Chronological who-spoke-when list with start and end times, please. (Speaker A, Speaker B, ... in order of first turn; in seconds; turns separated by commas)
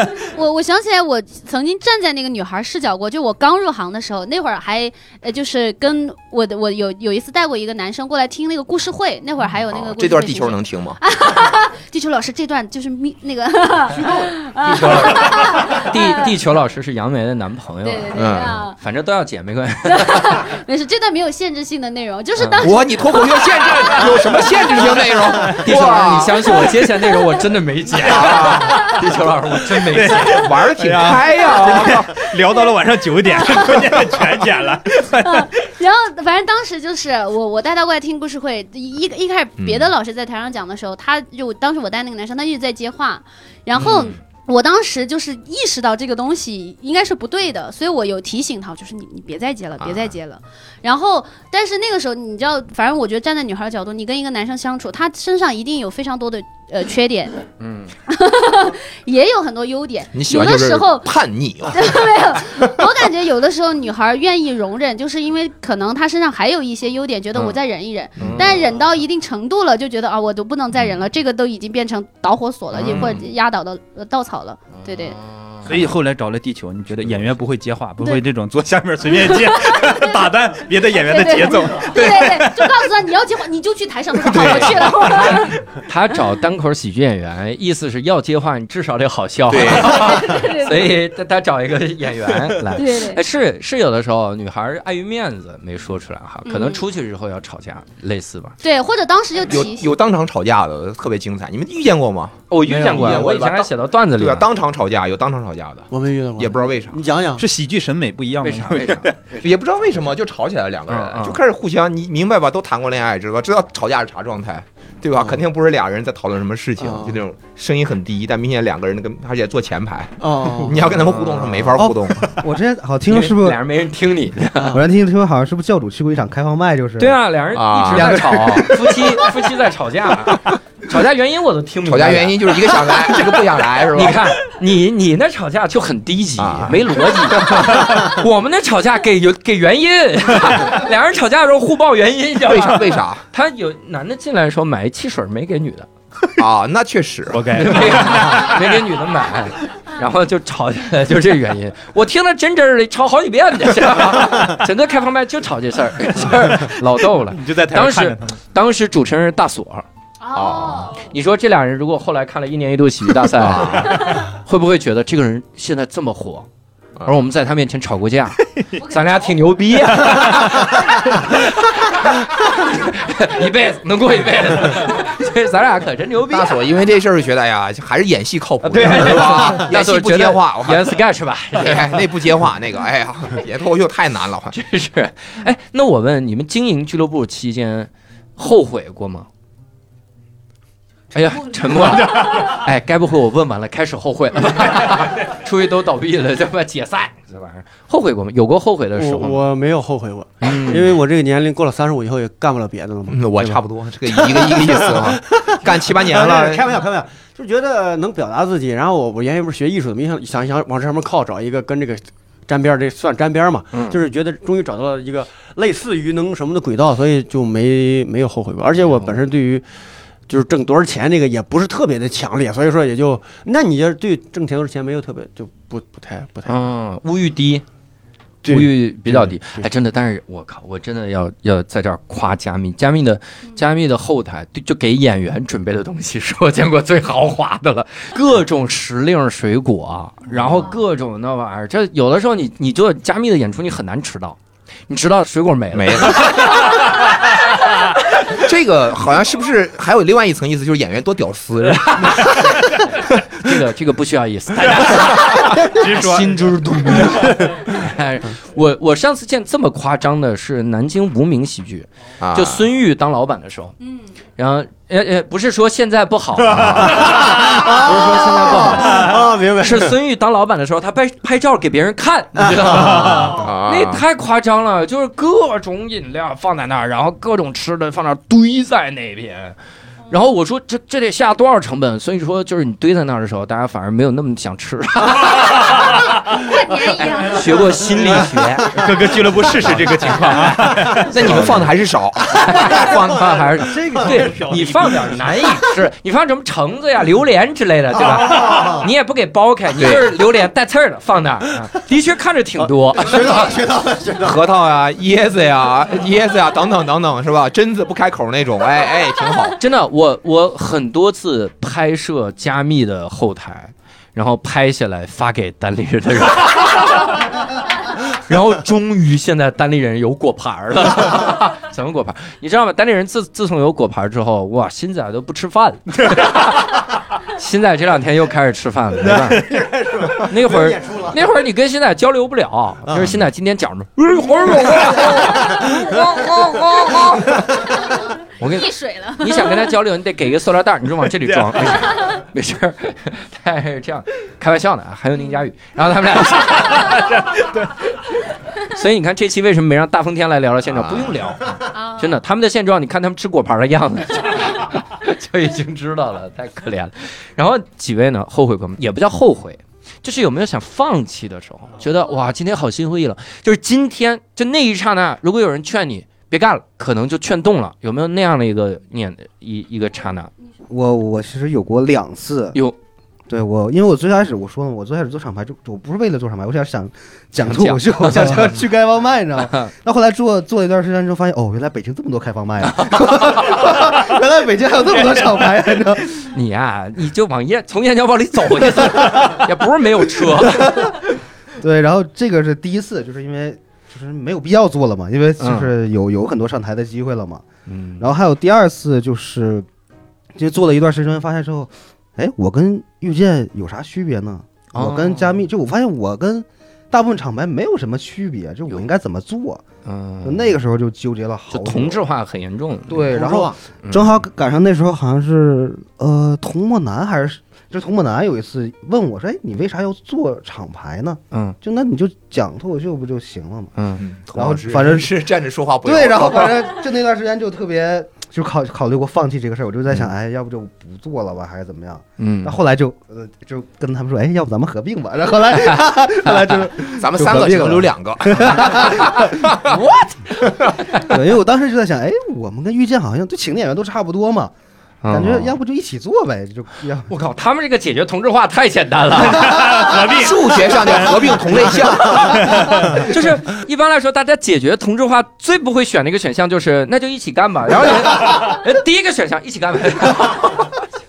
Speaker A: 0.1-16.3, Speaker B: 9.7-11.0, Speaker C: 14.6-18.1, Speaker A: 17.8-18.8, Speaker B: 18.1-18.6, Speaker C: 18.8-20.4, Speaker A: 19.9-23.9, Speaker C: 22.4-22.6, Speaker B: 22.6-26.6, Speaker D: 24.0-25.6, Speaker C: 25.6-30.5, Speaker B: 28.0-28.9, Speaker D: 29.9-35.7, Speaker B: 30.3-32.2, Speaker A: 33.3-34.0, Speaker A: 35.1-57.4, Speaker B: 39.6-39.9, Speaker C: 43.8-44.2, Speaker B: 49.8-50.1, Speaker C: 57.6-57.9, Speaker A: 58.1-61.1, Speaker B: 60.1-62.8, Speaker A: 61.7-75.2, Speaker C: 68.2-68.6, Speaker B: 68.2-68.6, Speaker C: 72.7-73.2, Speaker B: 72.8-73.1, Speaker C: 74.8-75.7, Speaker D: 75.6-82.8, Speaker A: 79.1-85.6, Speaker B: 84.3-85.4, Speaker C: 84.3-84.8, Speaker C: 85.8-98.6, Speaker B: 89.5-90.4, Speaker A: 89.8-90.9, Speaker A: 92.7-93.2, Speaker A: 96.5-96.8, Speaker A: 98.6-99.9, Speaker B: 99.5-107.0, Speaker C: 102.5-104.5, Speaker D: 102.8-103.2, Speaker E: 105.9-107.4, Speaker D: 107.4-109.2, Speaker C: 108.4-109.4, Speaker B: 109.4-122.3, Speaker C: 110.9-111.4, Speaker E: 116.8-117.2, Speaker E: 120.2-120.9, Speaker F: 121.7-123.6, Speaker C: 123.1-124.8, Speaker E: 124.6-124.8, Speaker F: 124.7-127.2, Speaker C: 127.0-132.9, Speaker B: 127.5-128.7, Speaker F: 127.9-129.1, Speaker B: 131.8-134.3, Speaker C: 133.9-145.9, Speaker B: 136.4-138.1, Speaker B: 142.4-143.2, Speaker B: 146.4-147.9, Speaker D: 147.3-148.8, Speaker C: 147.5-159.8, Speaker D: 156.3-156.7, Speaker D: 157.3-158.3, Speaker A: 160.2-161.0, Speaker B: 160.3-160.9, Speaker C: 161.1-166.5, Speaker B: 163.3-164.2, Speaker A: 163.9-164.2, Speaker C: 167.0-176.6, Speaker A: 168.8-169.2, Speaker B: 176.3-181.0, Speaker C: 178.6-182.0, Speaker D: 178.8-179.3, Speaker B: 181.6-184.6, Speaker C: 184.5-189.3, Speaker C: 191.1-199.4, Speaker E: 198.9-203.5, Speaker C: 200.4-200.9, Speaker B: 203.1-206.6, Speaker E: 204.1-219.7, Speaker C: 213.7-214.0, Speaker C: 218.8-219.1, Speaker E: 220.3-226.6, Speaker C: 226.4-227.6, Speaker E: 228.4-229.7, Speaker C: 228.4-244.4, Speaker B: 240.3-240.7, Speaker C: 244.9-246.4, Speaker B: 245.7-247.0, Speaker B: 248.2-252.7, Speaker C: 253.3-263.8, Speaker D: 255.6-257.4, Speaker B: 262.2-262.6, Speaker A: 263.8-264.1, Speaker C: 264.4-279.6, Speaker E: 266.9-269.9, Speaker E: 272.4-273.4, Speaker B: 273.3-274.0, Speaker C: 280.1-286.0, Speaker A: 286.3-287.6, Speaker C: 287.0-288.9, Speaker D: 288.7-291.7, Speaker C: 289.6-291.5, Speaker B: 291.1-293.8, Speaker C: 292.3-303.6, Speaker D: 294.0-295.0, Speaker E: 298.0-298.9, Speaker B: 299.8-300.1, Speaker E: 302.6-304.4, Speaker B: 304.2-309.6, Speaker C: 309.6-317.2, Speaker C: 318.0-337.7, Speaker E: 329.3-331.2, Speaker A: 337.6-339.7, Speaker C: 338.4-347.4, Speaker A: 341.9-342.2, Speaker C: 348.6-370.3, Speaker A: 351.7-352.2, Speaker F: 370.7-372.6, Speaker F: 373.3-386.1, Speaker C: 377.4-378.6, Speaker C: 379.4-379.7, Speaker C: 382.7-383.7, Speaker C: 386.2-390.9, Speaker F: 390.6-390.9, Speaker F: 391.6-397.4, Speaker C: 395.4-395.7, Speaker C: 397.7-398.1, Speaker F: 398.0-399.7, Speaker F: 400.3-409.6, Speaker C: 404.7-405.4, Speaker C: 409.8-410.6, Speaker F: 410.2-412.0, Speaker C: 411.5-413.1, Speaker F: 412.9-423.7, Speaker E: 413.1-413.5, Speaker C: 413.8-414.2, Speaker C: 421.3-421.6, Speaker C: 423.8-424.0, Speaker B: 424.0-426.6, Speaker F: 424.3-425.2, Speaker F: 425.8-439.5, Speaker C: 432.2-432.6, Speaker B: 437.0-439.8, Speaker C: 439.7-440.1, Speaker F: 441.0-444.5, Speaker C: 445.0-445.5, Speaker F: 445.1-447.1, Speaker C: 447.1-449.9, Speaker D: 449.5-451.0, Speaker B: 449.9-453.0, Speaker D: 452.2-452.8, Speaker C: 452.9-460.8